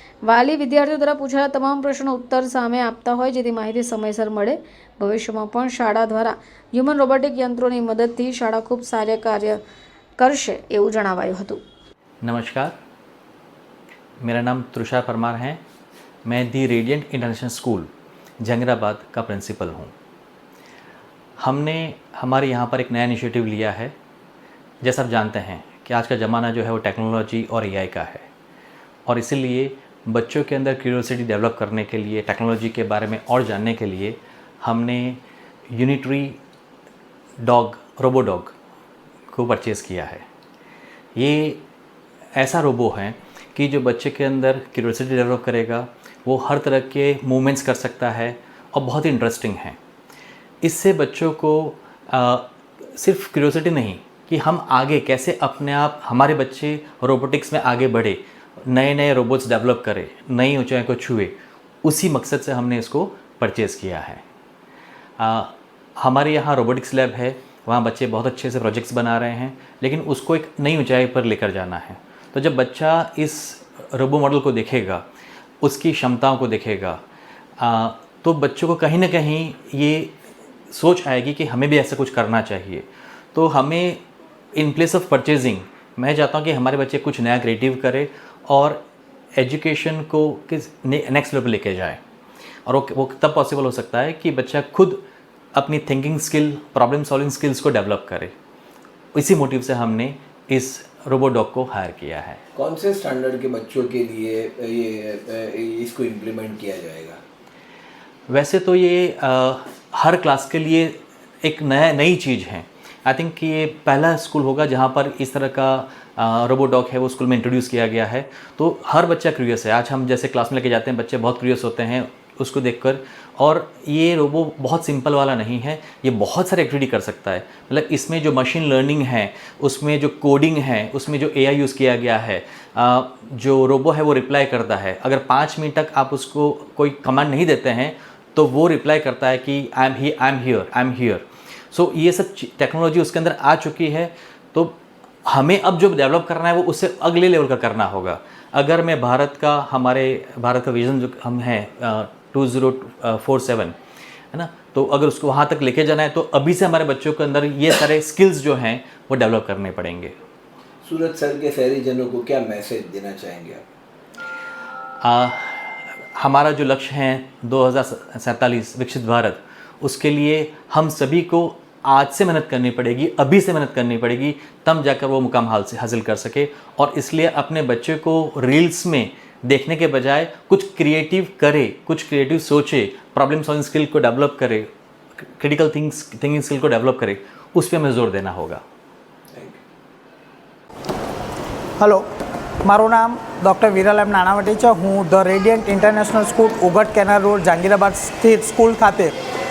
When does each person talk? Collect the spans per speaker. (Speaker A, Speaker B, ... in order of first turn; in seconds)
Speaker A: 0.2-9.6, 10.2-11.6
Speaker B: 12.2-12.7, 14.2-15.6, 16.3-17.9, 18.4-19.9, 21.4-23.9, 24.8-28.3, 29.1-35.2, 35.7-36.4, 37.4-38.5, 39.3-40.2, 41.2-41.6, 42.4-49.8, 50.6-64.2, 65.2-75.0, 75.6-77.0, 77.6-80.2, 80.7-84.0, 84.5-88.8, 89.4-92.0, 92.7-95.0, 95.6-98.3, 99.2-102.4, 108.3-153.8, 154.3-160.1, 165.0-184.7, 185.2-188.6
Speaker C: 102.6-107.2, 160.8-163.6, 189.3-189.6
Speaker D: 191.8-192.1, 192.6-199.1